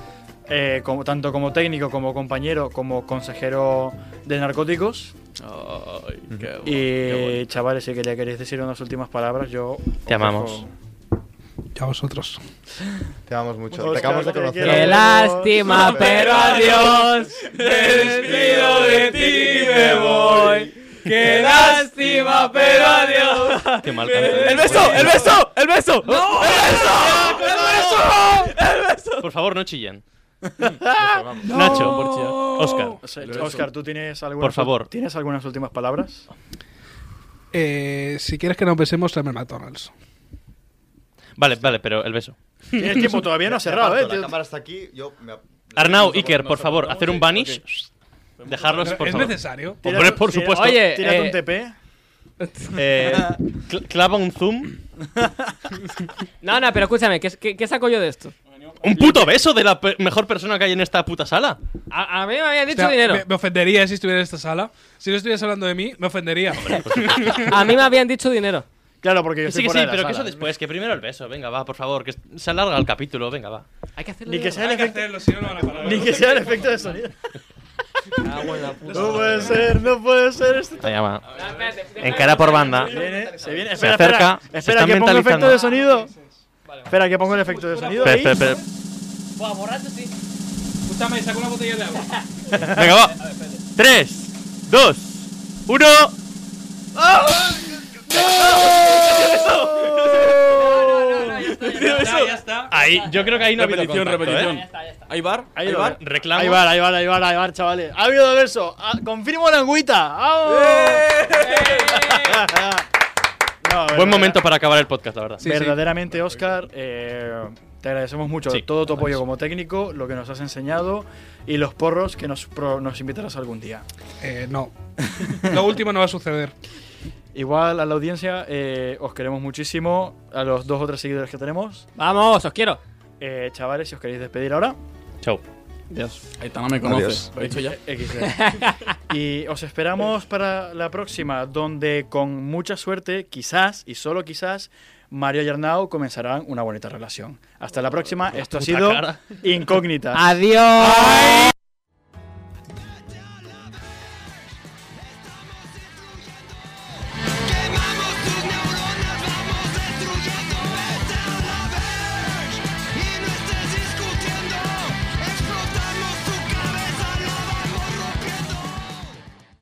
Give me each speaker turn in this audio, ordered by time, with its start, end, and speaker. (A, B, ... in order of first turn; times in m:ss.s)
0:00.5-0:05.1 A
0:05.4-0:07.4 B
0:06.6-0:10.7 A
0:10.1-0:10.6 C
0:11.7-0:12.4 D
0:13.3-0:15.1 E
0:13.7-0:15.8 A
0:14.6-0:20.7 F
0:15.6-0:29.3 B
0:15.9-0:16.2 E
0:17.7-0:20.0 D
0:21.1-0:21.9 D
0:21.2-0:23.7 F
0:23.8-0:25.3 C
0:24.4-0:25.2 F
0:26.5-0:26.8 C
0:29.2-0:30.0 C
0:30.6-0:32.0 A
0:30.8-0:31.7 E
0:31.4-0:33.7 B
0:31.5-0:33.0 C
0:31.7-0:33.0 D
0:33.0-0:36.3 A
0:34.4-0:34.9 C
0:37.5-0:39.9 D
0:41.4-0:42.4 C
0:42.7-0:43.1 D
0:42.7-0:44.3 A
0:43.4-0:46.5 E
0:45.8-0:47.9 C
0:46.0-0:47.6 B
0:48.4-0:49.2 B
0:48.5-0:50.8 C
0:48.8-0:49.8 D
0:49.8-0:51.7 A
0:50.5-0:51.4 F
0:52.4-0:52.8 F
0:52.8-0:54.8 C
0:52.8-0:53.3 A
0:56.4-0:58.3 F
0:58.5-0:59.3 B
0:58.8-1:01.6 C
1:01.9-1:03.2 F
1:02.7-1:07.4 D
1:06.5-1:07.6 C
1:06.7-1:08.6 F
1:09.0-1:10.4 A
1:09.4-1:13.6 C
1:14.0-1:14.7 F
1:14.2-1:17.2 A
1:14.6-1:16.5 D
1:18.2-1:19.6 F
1:18.9-1:20.9 A
1:20.8-1:21.2 C
1:21.3-1:23.8 B
1:21.4-1:23.2 F
1:22.0-1:23.0 C
1:22.8-1:26.1 A
1:23.8-1:25.6 C
1:25.6-1:26.3 D
1:26.9-1:28.4 A
1:27.2-1:28.7 D
1:28.0-1:28.6 C
1:29.4-1:30.1 F
1:30.8-1:32.1 D
1:32.5-1:33.2 C
1:33.8-1:36.2 C
1:37.0-1:40.3 C
1:38.1-1:42.4 B
1:40.5-1:43.3 F
1:42.0-1:42.7 D
1:42.7-1:44.6 C
1:43.3-1:46.0 B
1:44.4-1:45.1 F
1:45.5-1:52.8 A
1:46.0-1:46.6 C
1:50.4-1:52.0 B
1:51.6-1:52.4 F
1:53.6-1:54.4 A
1:53.9-1:55.4 C
1:55.4-1:55.8 D
1:55.4-2:03.8 A
1:58.5-1:59.1 C
2:04.2-2:04.7 D
2:05.2-2:05.6 A
2:05.4-2:06.5 D
2:07.3-2:11.9 A
2:12.0-2:12.8 F
2:13.2-2:14.8 A
2:15.9-2:16.2 F
2:16.4-2:17.8 B
2:16.8-2:17.3 E
2:17.3-2:30.4 A
2:18.2-2:18.8 F
2:28.3-2:29.4 C
2:30.1-2:31.5 F
2:33.2-2:33.8 G
2:35.2-2:36.4 G
2:37.2-2:49.2 G